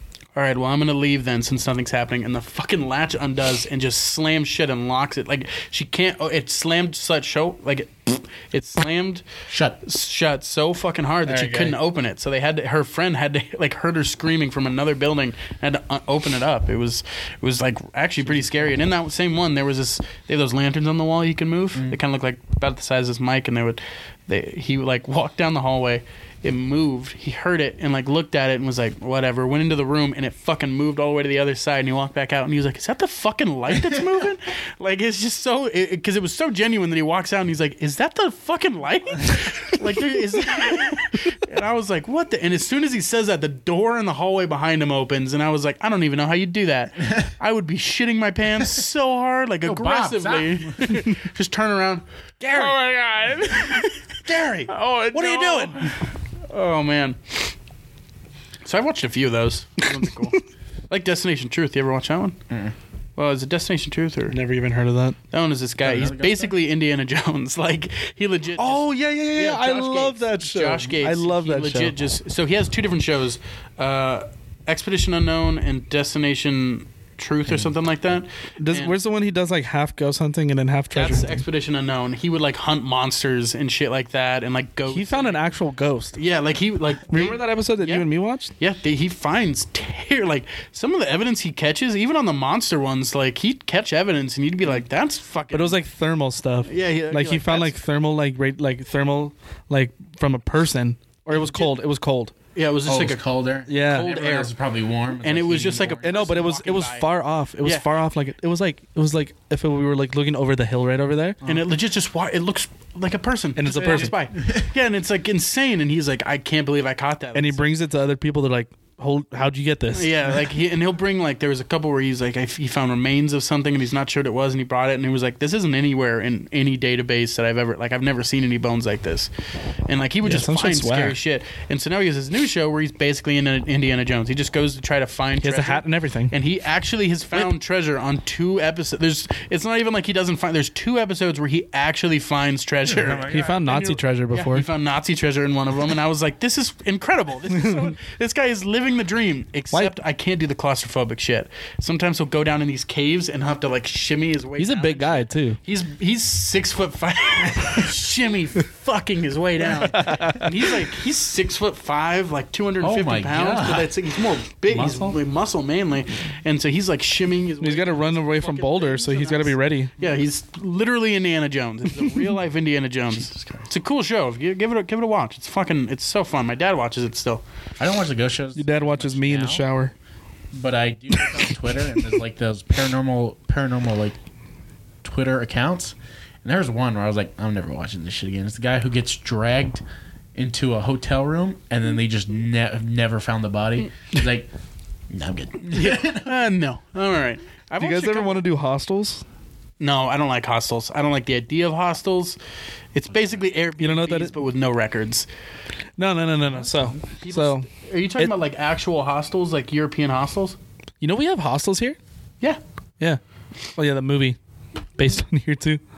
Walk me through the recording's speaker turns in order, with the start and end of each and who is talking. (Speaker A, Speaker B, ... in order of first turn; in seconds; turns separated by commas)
Speaker A: 0.3-9.2, Speaker B: 9.5-9.8, Speaker A: 9.8-57.5, Speaker C: 11.3-11.7, Speaker B: 18.2-18.8, Speaker B: 49.6-51.0, Speaker B: 55.1-55.7, Speaker A: 58.6-62.4, Speaker B: 62.5-62.7, Speaker A: 63.2-64.4, Speaker C: 64.3-65.2, Speaker A: 65.3-78.9, Speaker B: 65.8-66.5, Speaker C: 68.6-71.9, Speaker B: 77.5-77.7, Speaker C: 78.6-81.4, Speaker A: 80.9-85.4, Speaker C: 84.9-86.2, Speaker A: 86.1-95.8, Speaker C: 87.1-88.5, Speaker C: 95.5-102.3, Speaker A: 96.6-97.7, Speaker A: 101.3-101.7, Speaker A: 102.5-103.2, Speaker B: 102.8-106.3, Speaker C: 103.7-104.1, Speaker A: 103.7-104.5, Speaker A: 105.2-107.1, Speaker C: 106.0-111.4, Speaker A: 111.4-117.7, Speaker C: 113.5-114.1, Speaker B: 113.8-114.7, Speaker C: 117.3-120.2, Speaker A: 119.9-129.3, Speaker A: 129.9-177.4, Speaker C: 130.2-131.2, Speaker C: 135.4-136.3, Speaker B: 142.8-143.9, Speaker C: 143.3-144.7, Speaker C: 147.5-147.9, Speaker C: 154.6-155.6, Speaker B: 159.7-160.3, Speaker C: 159.9-160.5, Speaker B: 162.8-163.9, Speaker B: 164.7-165.2, Speaker C: 167.6-169.9, Speaker B: 173.3-173.7, Speaker B: 177.8-179.7, Speaker C: 178.6-179.9, Speaker B: 180.5-184.2, Speaker B: 185.0-189.8, Speaker B: 190.3-194.5, Speaker B: 195.1-196.3, Speaker A: 195.7-198.4, Speaker C: 197.8-199.2, Speaker A: 199.8-202.4, Speaker A: 202.9-205.3, Speaker B: 203.1-203.4, Speaker C: 203.8-204.3, Speaker C: 206.0-208.3, Speaker A: 207.0-210.6, Speaker C: 211.0-212.0, Speaker C: 213.8-214.4, Speaker C: 214.9-215.8